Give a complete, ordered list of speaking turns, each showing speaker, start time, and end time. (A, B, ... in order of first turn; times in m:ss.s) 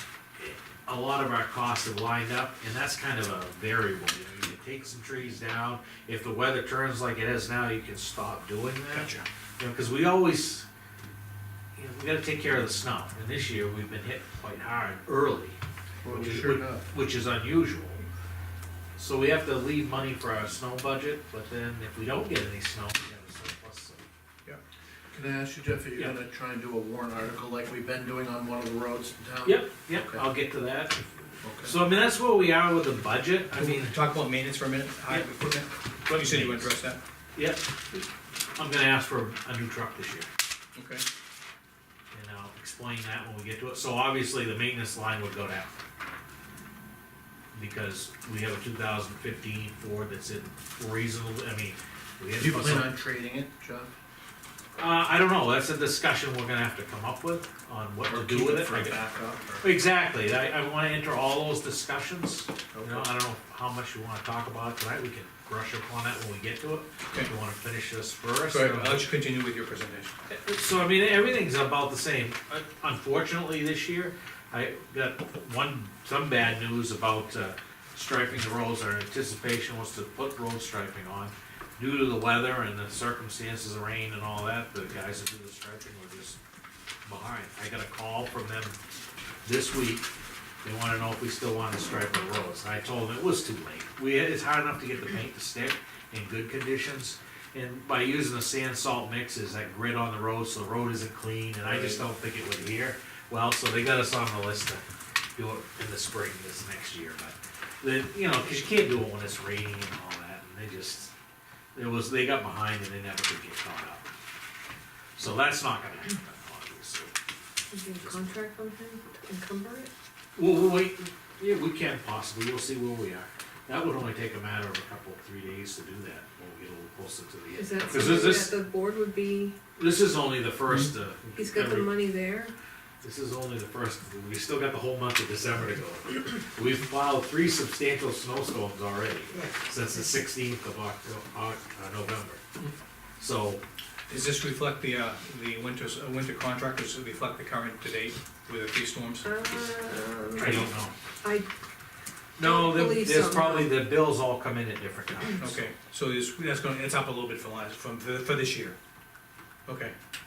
0:00.4-0:10.7 A
0:08.9-0:09.2 B
0:11.8-0:18.0 A
0:16.0-0:16.8 C
0:19.0-0:24.1 A
0:25.1-0:30.2 C
0:29.4-0:31.1 A
0:31.4-0:31.8 C
0:31.6-0:34.0 A
0:33.6-0:37.0 B
0:36.1-0:36.7 A
0:37.4-0:40.3 A
0:40.8-0:41.0 B
0:42.1-0:45.8 A
0:47.5-0:52.9 A
0:52.4-0:53.9 C
0:54.8-0:59.0 A
0:58.1-0:59.7 C
0:59.6-1:09.1 A
1:02.7-1:03.1 C
1:08.5-1:10.2 B
1:10.3-1:26.4 A
1:27.0-1:28.8 A
1:29.4-1:30.1 A
1:30.6-1:44.8 A
1:45.4-1:51.1 A
1:51.8-1:54.1 A
1:55.2-1:57.1 A
1:57.7-1:59.9 D
1:58.0-1:58.3 A
2:00.4-2:08.6 A
2:07.5-2:09.6 D
2:09.8-2:12.0 A
2:11.4-2:12.5 D
2:13.0-2:22.4 A
2:23.2-2:23.6 A
2:24.1-2:29.3 B
2:29.2-2:30.7 D
2:30.4-2:30.9 A
2:31.2-2:31.5 D
2:32.4-2:35.6 A
2:32.4-2:33.7 D
2:35.4-2:38.8 B
2:39.7-2:40.0 B